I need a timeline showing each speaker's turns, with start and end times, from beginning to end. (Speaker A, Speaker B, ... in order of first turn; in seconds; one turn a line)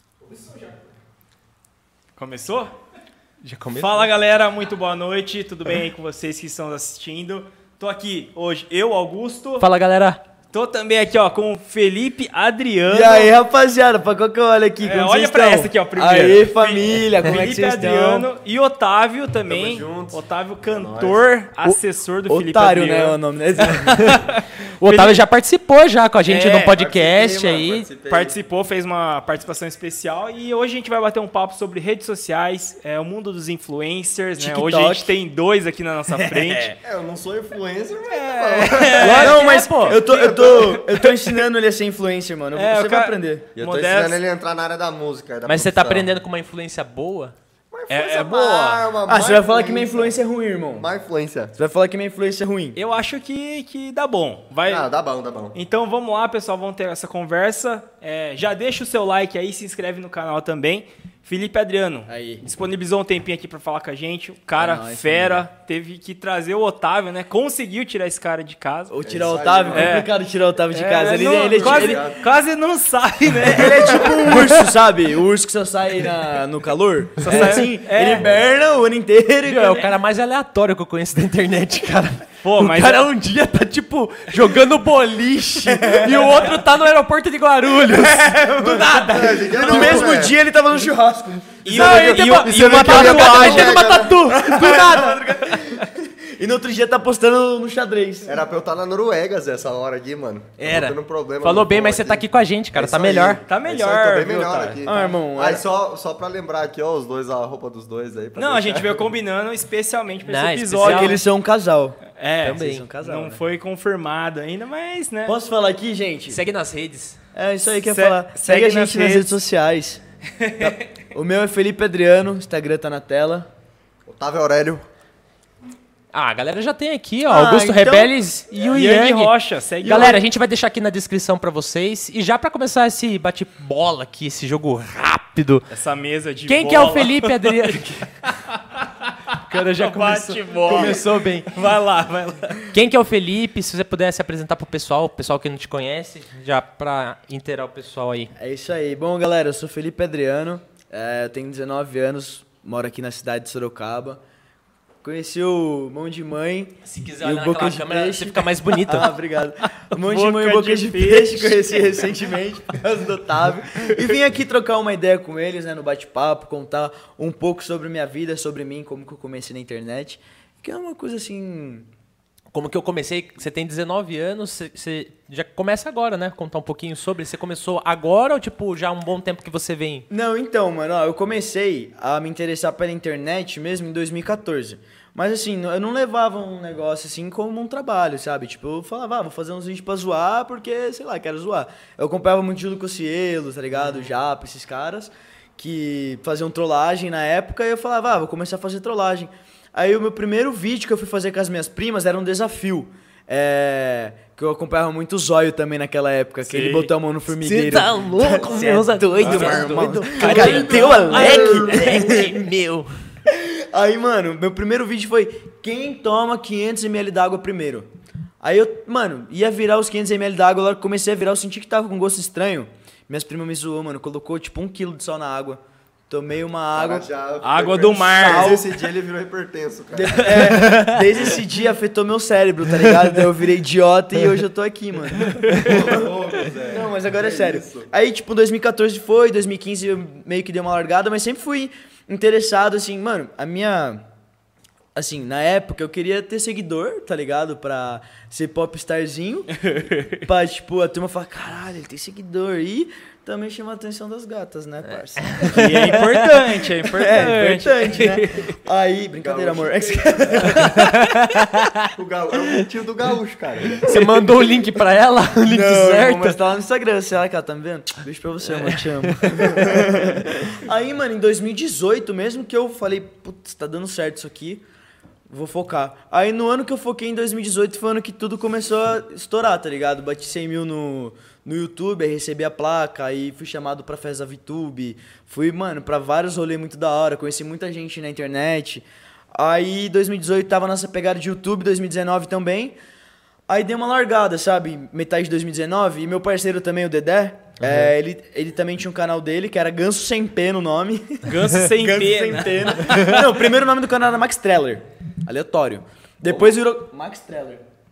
Speaker A: 0.3-0.7
Speaker A: 2.2-2.7
Speaker B: 3.4-4.1
Speaker A: 3.8-9.7
Speaker B: 9.6-10.2
Speaker A: 10.5-13.3
Speaker C: 12.9-18.3
Speaker A: 14.8-23.2
Speaker D: 19.5-21.3
Speaker C: 22.3-24.1
Speaker A: 23.8-25.2
Speaker B: 24.8-27.9
Speaker A: 26.3-26.8
Speaker D: 26.7-28.4
Speaker A: 28.1-36.8
Speaker C: 34.4-35.1
Speaker C: 36.1-36.8
Speaker D: 36.8-40.8
Speaker A: 38.1-39.7
Speaker B: 39.0-40.0
Speaker C: 39.0-43.5
Speaker A: 42.5-44.2
Speaker D: 43.6-46.1
Speaker B: 45.5-47.3
Speaker D: 47.7-50.2
Speaker A: 47.9-48.9
Speaker C: 49.1-50.9
Speaker D: 50.8-51.5
Speaker C: 51.6-52.8
Speaker A: 52.8-54.9
Speaker D: 54.6-55.6
Speaker A: 55.5-68.9
Speaker C: 62.1-62.4
Speaker C: 64.6-65.4
Speaker C: 68.9-72.0
Speaker D: 69.0-70.0
Speaker A: 69.7-70.1
Speaker A: 70.7-74.7
Speaker D: 71.1-72.2
Speaker C: 73.4-79.9
Speaker A: 77.2-78.2
Speaker B: 79.5-90.2
Speaker A: 82.4-83.1
Speaker A: 87.9-89.3
Speaker D: 89.1-90.4
Speaker C: 89.5-92.9
Speaker A: 91.6-94.1
Speaker D: 91.7-94.2
Speaker B: 91.8-95.7
Speaker C: 94.2-98.4
Speaker D: 98.3-109.0
Speaker B: 100.6-103.4
Speaker A: 103.5-105.0
Speaker C: 104.8-105.7
Speaker A: 108.4-111.2
Speaker B: 110.2-111.2
Speaker C: 110.8-113.4
Speaker A: 112.2-115.3
Speaker B: 112.4-112.9
Speaker C: 115.3-116.4
Speaker B: 116.3-117.2
Speaker C: 117.3-120.0
Speaker A: 117.8-119.4
Speaker A: 120.4-120.9
Speaker C: 120.6-123.5
Speaker D: 124.1-124.8
Speaker B: 126.1-135.7
Speaker C: 127.3-128.1
Speaker A: 128.6-130.2
Speaker A: 135.7-138.9
Speaker B: 136.5-138.3
Speaker B: 139.5-141.5
Speaker A: 139.7-142.7
Speaker B: 142.7-148.3
Speaker C: 148.4-154.2
Speaker C: 155.0-171.9
Speaker B: 156.8-159.2
Speaker A: 159.9-162.1
Speaker B: 172.5-180.1
Speaker C: 180.1-212.3
Speaker B: 193.7-194.2
Speaker A: 206.4-206.9
Speaker B: 207.3-212.9
Speaker A: 209.2-211.8
Speaker D: 210.2-212.3
Speaker C: 213.3-217.9
Speaker C: 218.4-227.1
Speaker D: 226.7-230.6
Speaker A: 227.4-228.6
Speaker C: 228.2-228.7
Speaker C: 229.9-236.1
Speaker A: 235.4-235.7
Speaker D: 235.5-237.9
Speaker C: 236.6-244.0
Speaker C: 244.9-249.6
Speaker A: 249.6-250.2
Speaker C: 250.2-260.8
Speaker B: 254.9-255.9
Speaker A: 255.4-258.6
Speaker D: 259.2-260.8
Speaker A: 260.8-261.4
Speaker D: 261.9-263.8
Speaker B: 263.8-266.4
Speaker C: 265.4-274.6
Speaker B: 268.6-269.7
Speaker C: 275.3-292.8
Speaker C: 293.5-307.6
Speaker B: 297.6-297.9
Speaker A: 301.3-303.4